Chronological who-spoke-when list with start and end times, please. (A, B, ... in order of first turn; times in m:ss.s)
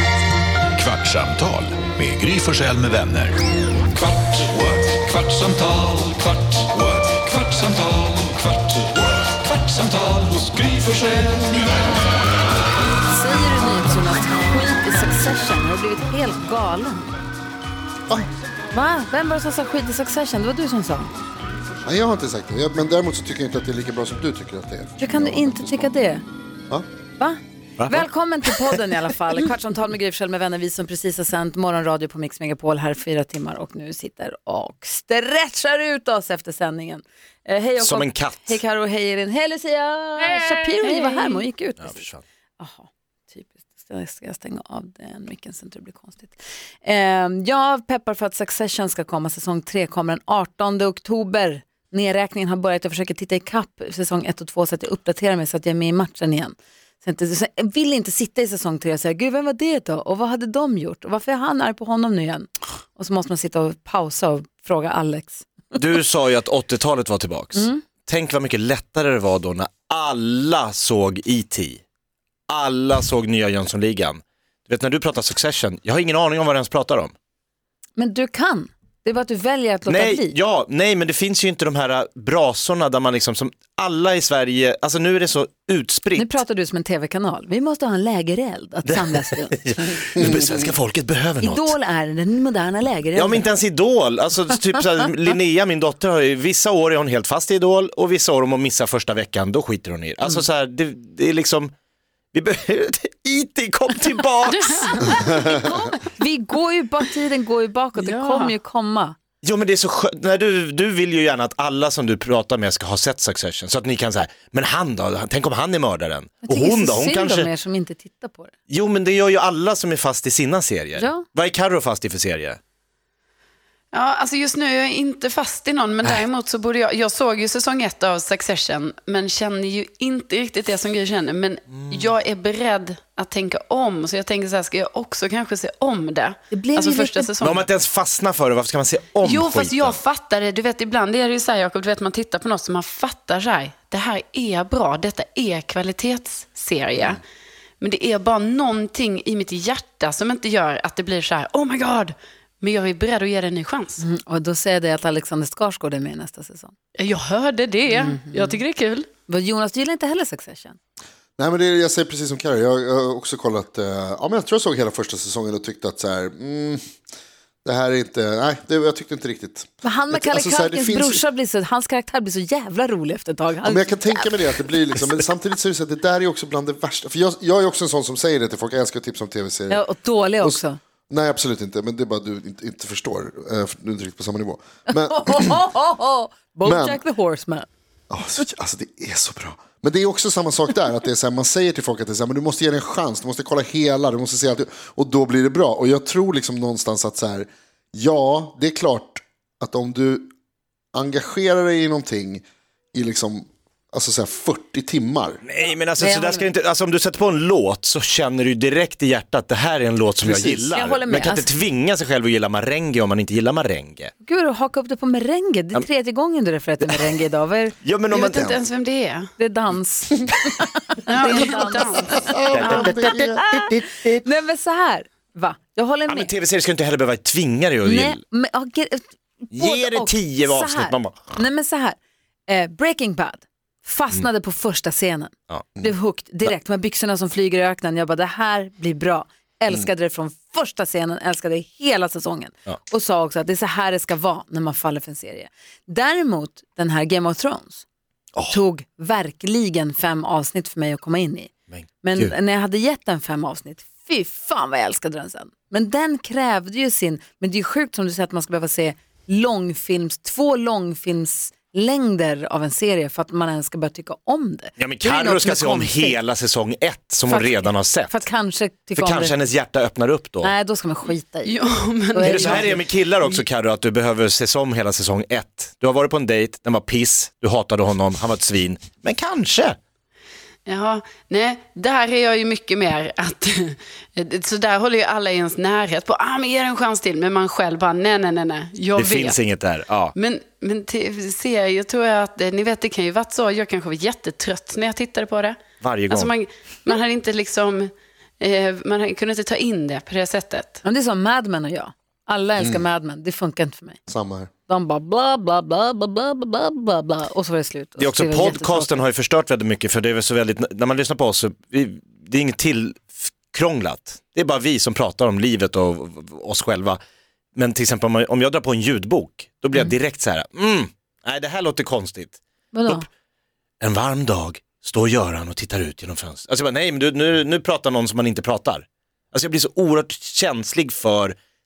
0:00.7-0:03.4 A
0:04.4-0:08.0 A
0:13.1-0:17.2 B
0:18.7-0:21.1 B
0:21.8-0:25.9 C
0:25.0-0:26.2 B
0:27.2-1:05.8 B
0:27.8-0:28.8 D
0:37.8-0:38.6 D
0:40.8-0:41.4 E
0:41.8-0:42.2 D
1:05.8-1:11.8 D
1:07.6-1:07.8 B
1:12.5-1:17.1 D
1:18.0-1:20.3 B
1:19.9-1:26.4 D
1:26.1-1:29.6 B
1:28.9-1:31.8 D
1:31.4-1:33.5 B
1:33.1-1:41.7 D
1:42.3-1:44.9 D
1:44.4-1:45.5 E
1:45.3-1:49.2 B
1:48.0-1:48.6 E
1:49.4-1:57.5 D
1:56.4-1:58.5 B
1:58.7-2:02.6 D
2:01.0-2:01.3 B
2:03.9-2:17.7 E
2:11.7-2:12.0 D
2:16.5-2:17.3 B
2:17.4-2:20.0 D
2:19.2-2:27.2 E
2:27.8-2:34.0 E
2:34.0-2:36.7 B
2:37.0-2:39.1 E
2:37.9-2:38.6 B
2:39.3-2:40.8 B
2:41.4-2:46.8 C
2:47.6-2:51.2 C
2:49.8-2:54.3 B
2:53.6-2:59.8 C
2:59.7-3:00.8 B
3:00.4-3:05.6 C
3:04.9-3:07.7 B
3:06.6-3:07.0 C
3:08.1-3:20.3 C
3:21.0-3:25.4 C
3:25.4-3:34.1 D
3:26.0-3:26.5 B
3:30.2-3:30.7 C
3:30.7-3:31.5 B
3:34.2-3:37.8 B
3:36.8-3:37.1 D
3:37.8-3:38.6 D
3:38.1-3:39.3 E
3:39.4-3:46.3 B
3:41.1-3:42.9 E
3:42.1-3:43.4 C
3:42.6-3:44.2 D
3:46.1-3:48.2 D
3:47.8-4:07.8 B
3:49.5-3:51.3 D
4:08.5-4:11.5 B
4:11.7-4:12.3 D
4:12.0-4:26.2 B
4:24.8-4:28.3 D
4:27.3-4:29.4 B
4:28.9-4:30.5 D
4:30.4-4:31.6 B
4:31.4-4:33.4 E
4:32.1-4:32.8 B
4:32.2-4:39.8 D
4:40.7-4:49.5 E
4:49.0-4:50.1 D
4:50.2-5:00.8 E
4:55.8-4:56.3 D
5:00.8-5:04.0 B
5:02.6-5:02.8 C
5:04.1-5:04.5 C
5:04.7-5:09.0 B
5:08.0-5:17.0 D
5:17.6-5:23.0 D
5:22.7-5:23.0 B
5:23.8-5:31.4 D